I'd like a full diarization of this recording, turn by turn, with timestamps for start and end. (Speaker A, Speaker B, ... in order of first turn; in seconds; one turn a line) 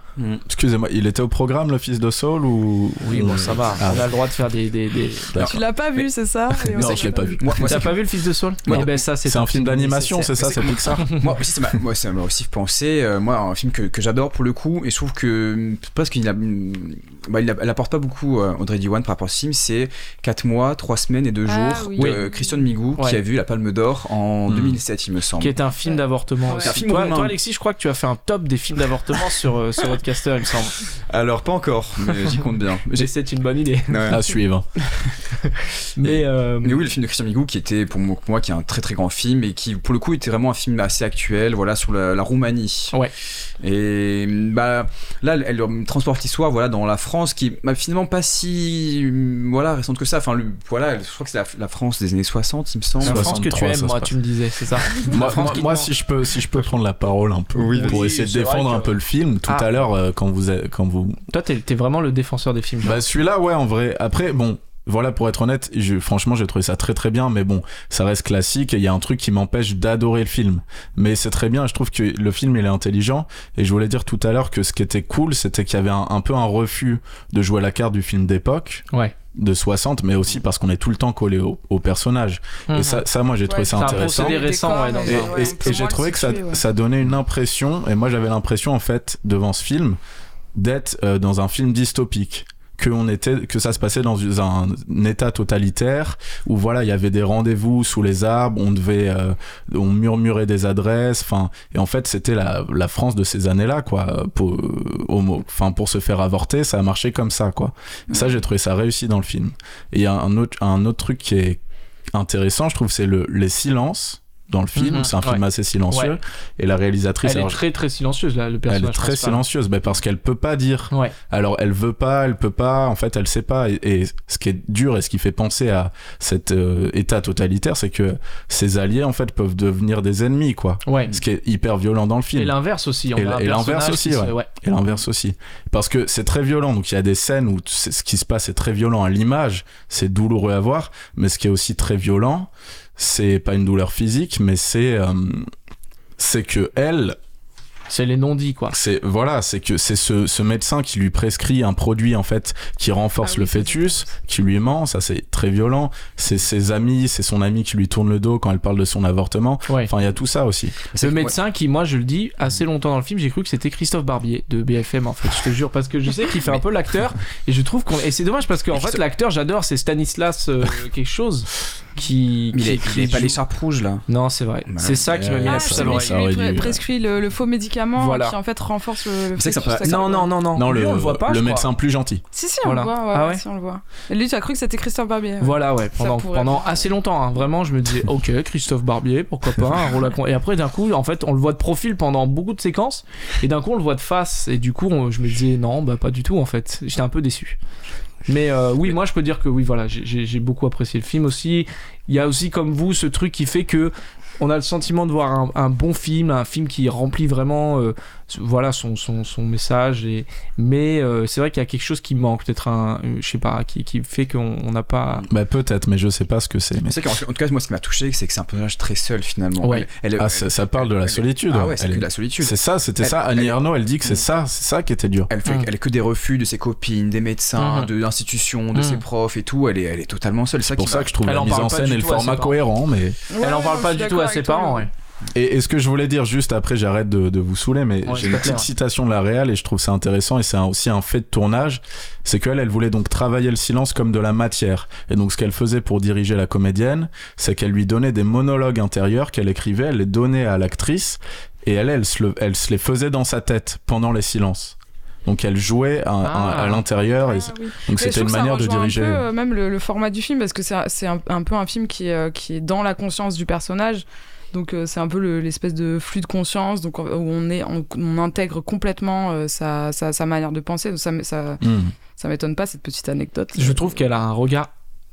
Speaker A: 0.2-0.4
Speaker B: 0.5-4.2
Speaker C: 3.0-5.4
Speaker B: 5.3-5.6
Speaker D: 5.4-7.4
Speaker B: 6.7-7.9
Speaker A: 6.7-8.1
Speaker C: 7.6-10.3
Speaker A: 8.6-9.1
Speaker B: 8.7-11.2
Speaker A: 10.4-25.6
Speaker D: 21.5-22.6
Speaker C: 22.0-22.2
Speaker B: 24.5-24.8
Speaker C: 25.4-30.9
Speaker A: 26.5-27.4
Speaker A: 31.1-33.1
Speaker C: 32.9-34.1
Speaker A: 33.9-34.2
Speaker B: 34.1-34.6
Speaker C: 36.0-36.8
Speaker A: 36.0-43.0
Speaker A: 43.6-53.3
Speaker B: 53.0-54.2
Speaker C: 53.0-55.9
Speaker B: 55.0-61.2
Speaker A: 57.5-58.1
Speaker C: 57.7-59.7
Speaker C: 61.3-63.0
Speaker B: 62.8-90.0
Speaker C: 82.7-83.0
Speaker D: 83.5-86.6
Speaker C: 83.8-85.4
Speaker B: 90.5-111.6
Speaker B: 112.1-117.6
Speaker C: 114.8-116.2
Speaker C: 117.2-119.4
Speaker B: 118.7-132.6
Speaker C: 130.8-131.2
Speaker C: 132.4-134.5
Speaker B: 133.1-145.5
Speaker B: 146.2-147.2
Speaker C: 147.9-148.8
Speaker B: 148.7-160.8
Speaker D: 153.2-153.9
Speaker A: 160.9-161.4
Speaker C: 161.0-173.4
Speaker A: 168.7-169.0
Speaker A: 172.5-174.1
Speaker C: 174.1-176.2
Speaker A: 174.7-175.1
Speaker B: 175.1-176.8
Speaker D: 175.5-180.3
Speaker C: 178.0-178.4
Speaker A: 179.4-180.3
Speaker C: 179.8-181.7
Speaker B: 180.5-182.2
Speaker D: 182.3-186.9
Speaker C: 182.6-183.4
Speaker C: 185.4-197.6
Speaker C: 198.3-215.2
Speaker B: 215.3-217.2
Speaker A: 216.8-224.3
Speaker C: 219.6-219.9
Speaker B: 220.2-225.3
Speaker A: 225.3-231.2
Speaker C: 227.6-227.9
Speaker C: 228.7-229.0
Speaker B: 230.7-233.2
Speaker C: 231.2-232.6
Speaker D: 233.3-234.9
Speaker C: 233.4-234.9
Speaker B: 235.3-259.2
Speaker C: 238.1-238.7
Speaker C: 256.2-256.8
Speaker D: 257.2-271.6
Speaker B: 271.6-271.9
Speaker D: 272.2-273.9
Speaker C: 273.6-274.7